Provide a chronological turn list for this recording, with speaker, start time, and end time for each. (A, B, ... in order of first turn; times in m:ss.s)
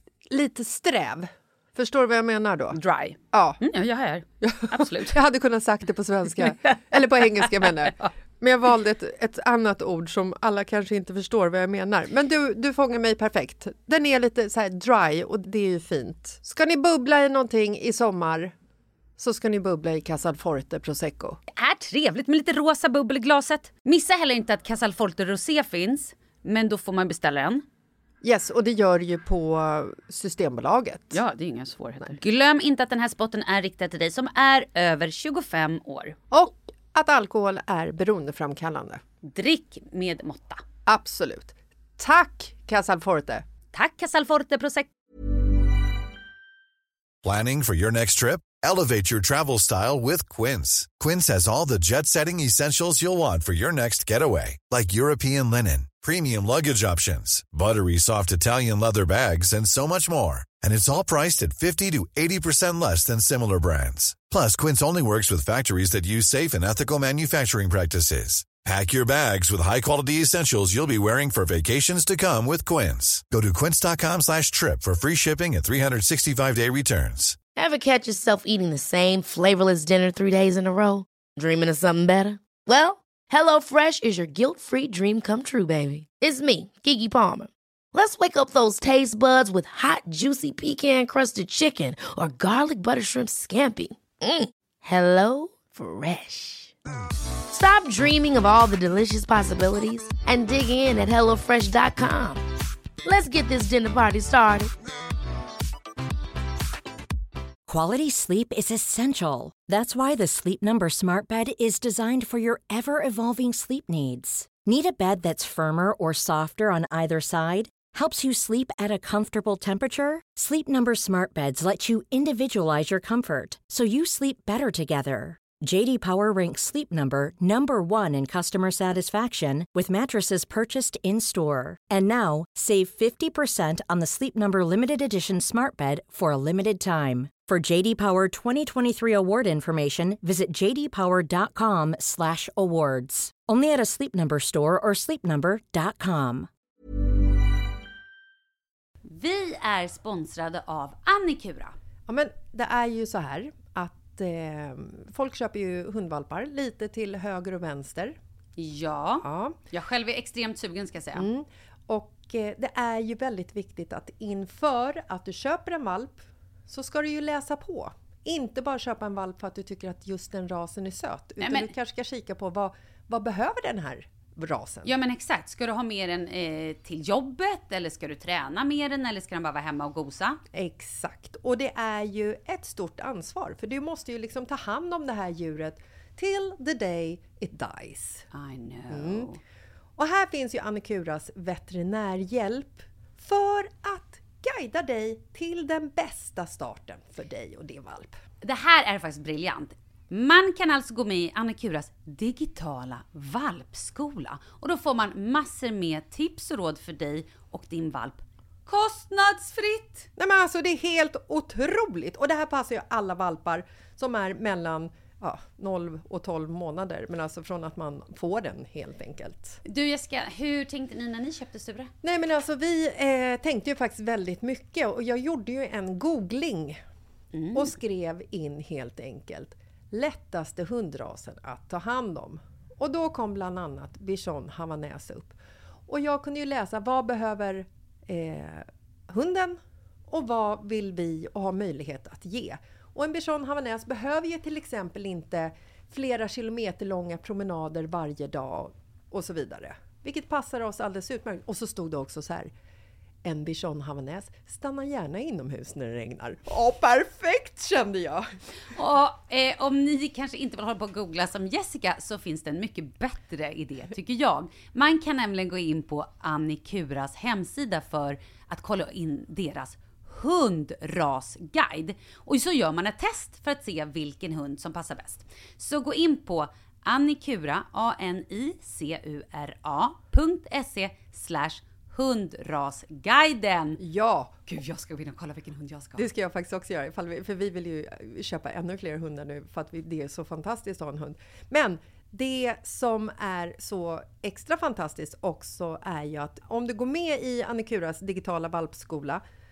0:00.3-0:02.8 A
0:02.7-0:05.2 B
0:03.3-0:03.6 A
0:04.4-0:18.5 A
0:07.6-0:08.0 B
0:19.2-0:21.4 A
0:21.5-0:27.6 B
0:28.2-0:31.2 A
0:31.1-0:36.2 B
0:36.3-0:39.0 A
0:39.2-0:40.6 B
0:40.9-0:43.4 A
0:43.7-0:44.9 B
0:47.2-1:17.4 C
1:17.6-1:36.7 D
1:37.5-1:42.4 D
1:43.0-1:44.7 D
1:47.7-2:26.5 E
2:29.0-2:31.8 B
2:32.1-2:38.2 A
2:38.6-2:41.3 B
2:39.2-2:39.6 A
2:41.2-2:54.9 A
2:51.4-2:51.7 B
2:54.8-3:00.4 B
3:00.5-3:08.3 A
3:08.3-3:09.4 B
3:08.9-3:09.3 A
3:10.0-3:18.2 A
3:18.4-3:30.1 B
3:30.2-3:39.6 A
3:39.6-3:41.9 B
3:42.0-3:46.8 A
3:47.3-3:47.7 B
3:47.5-3:55.4 A
3:55.9-4:12.5 A
4:13.2-4:18.3 A
4:18.7-4:43.8 B
4:43.8-4:44.4 A
4:44.5-4:46.0 B
4:46.0-4:59.2 A